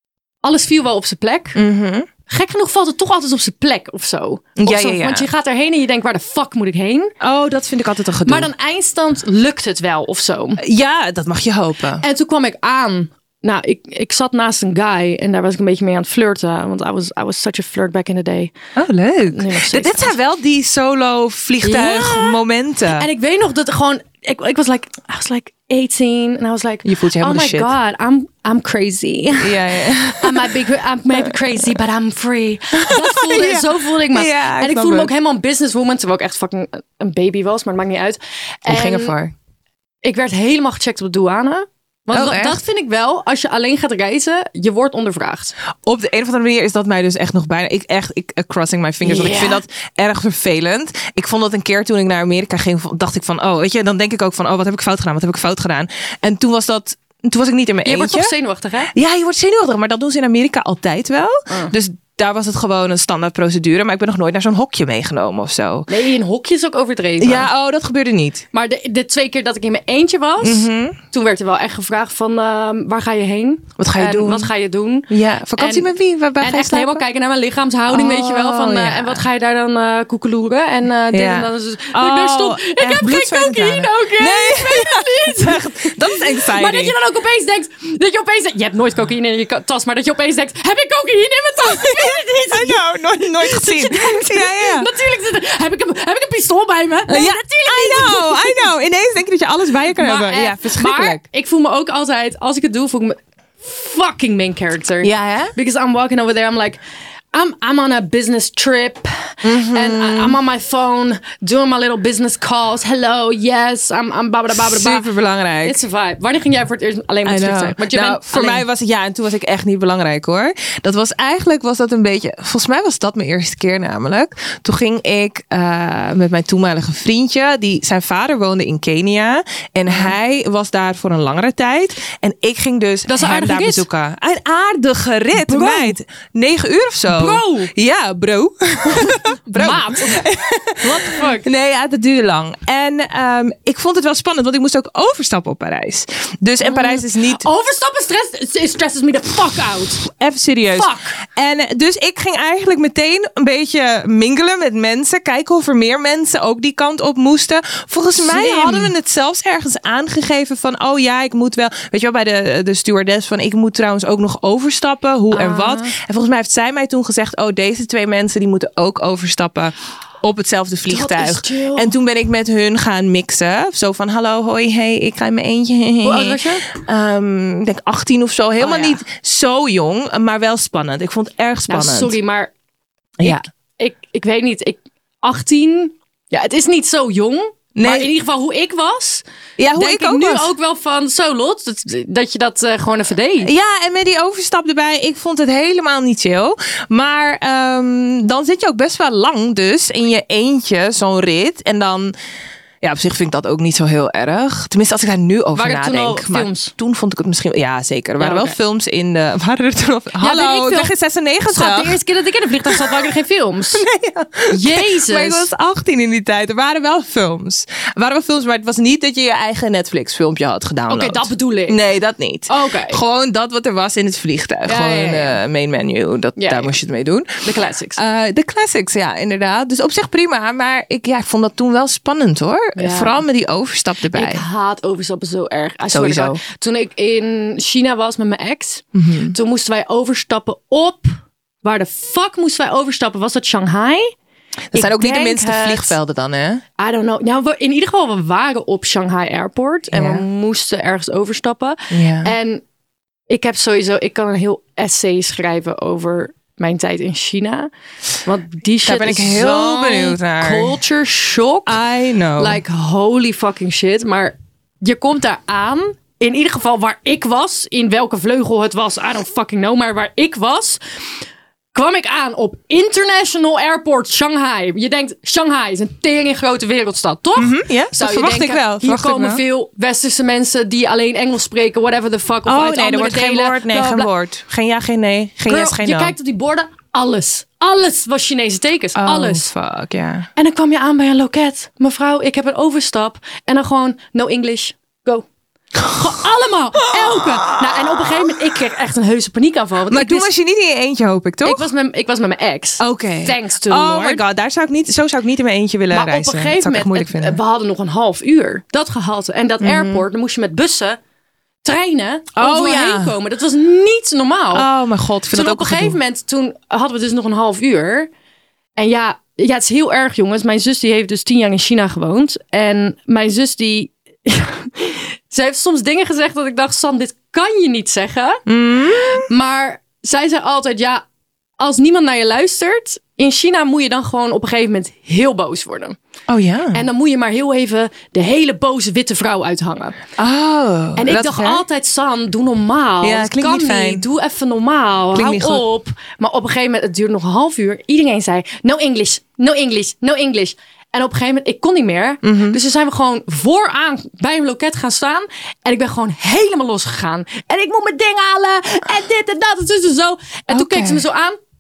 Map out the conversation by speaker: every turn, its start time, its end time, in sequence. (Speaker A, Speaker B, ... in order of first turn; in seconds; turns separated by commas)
Speaker A: 0.4-1.6, Speaker B: 1.6-2.1, Speaker A: 2.3-7.1, Speaker B: 4.6-5.3, Speaker B: 7.2-8.5, Speaker A: 8.2-10.6, Speaker B: 10.6-12.0, Speaker A: 12.0-18.5, Speaker B: 18.8-23.1, Speaker A: 19.3-20.1, Speaker A: 21.6-22.4, Speaker A: 22.9-39.1, Speaker B: 26.8-27.7, Speaker B: 29.4-30.6, Speaker B: 31.2-31.6, Speaker B: 32.7-35.1, Speaker B: 38.7-39.3, Speaker A: 40.0-45.5, Speaker B: 42.1-42.6, Speaker B: 45.9-58.3, Speaker A: 49.0-49.6, Speaker A: 57.8-58.9, Speaker B: 58.9-65.9, Speaker A: 65.9-67.5, Speaker B: 67.2-68.4, Speaker A: 68.5-98.7, Speaker B: 70.4-71.0, Speaker B: 73.8-74.5, Speaker B: 75.1-77.0, Speaker B: 77.9-79.2, Speaker B: 81.1-86.9, Speaker B: 91.6-94.9, Speaker B: 97.1-101.2, Speaker A: 100.0-106.8, Speaker B: 105.0-105.5, Speaker A: 107.3-115.0, Speaker B: 109.4-110.4, Speaker B: 114.5-115.8, Speaker A: 115.6-118.6, Speaker B: 117.2-147.4, Speaker A: 129.9-130.1, Speaker A: 133.1-133.8, Speaker A: 135.3-135.9, Speaker A: 137.1-137.7, Speaker A: 138.9-140.2, Speaker A: 140.8-141.4, Speaker A: 146.6-150.1, Speaker B: 150.1-182.2, Speaker A: 150.7-151.2, Speaker A: 158.2-158.9, Speaker A: 165.3-165.9, Speaker A: 170.9-171.9, Speaker A: 176.0-176.7, Speaker A: 178.6-179.0, Speaker A: 181.7-182.5, Speaker A: 183.2-193.5, Speaker B: 187.8-188.1, Speaker B: 189.6-190.5, Speaker B: 193.4-202.1, Speaker B: 202.8-212.0, Speaker A: 205.6-206.7, Speaker A: 208.2-208.6, Speaker A: 210.2-210.9, Speaker A: 211.5-213.8, Speaker B: 212.7-213.1, Speaker B: 213.7-227.4, Speaker A: 214.5-215.5, Speaker A: 220.9-221.8, Speaker A: 222.5-223.0, Speaker A: 224.7-225.4, Speaker A: 226.4-226.7, Speaker A: 227.4-228.0, Speaker B: 227.9-234.4, Speaker A: 232.8-233.2, Speaker A: 234.1-244.1, Speaker B: 235.9-236.4, Speaker B: 238.9-239.3, Speaker B: 244.7-246.6, Speaker A: 244.7-246.0, Speaker A: 246.8-252.6, Speaker B: 249.9-250.2, Speaker B: 251.9-252.3, Speaker A: 253.3-257.7, Speaker A: 258.2-261.8, Speaker B: 258.8-260.7, Speaker B: 261.7-262.6, Speaker A: 262.4-270.8, Speaker A: 271.7-284.1, Speaker B: 277.4-279.4, Speaker B: 282.4-286.1, Speaker A: 285.4-289.4, Speaker B: 288.9-290.3, Speaker A: 290.4-295.3, Speaker A: 295.8-300.3, Speaker B: 297.0-297.8, Speaker B: 299.9-301.6, Speaker A: 301.4-304.2, Speaker B: 302.8-307.4, Speaker A: 305.9-311.0, Speaker B: 309.6-310.0, Speaker A: 311.6-314.6, Speaker B: 312.4-313.1, Speaker B: 314.5-316.0, Speaker A: 315.3-318.1, Speaker A: 318.8-331.0, Speaker B: 328.5-329.3, Speaker A: 331.6-336.0, Speaker B: 336.3-336.8, Speaker A: 336.7-340.0, Speaker B: 340.2-341.6, Speaker A: 340.9-361.4, Speaker B: 343.0-344.0, Speaker B: 345.1-345.6, Speaker B: 352.2-352.6, Speaker B: 360.5-361.0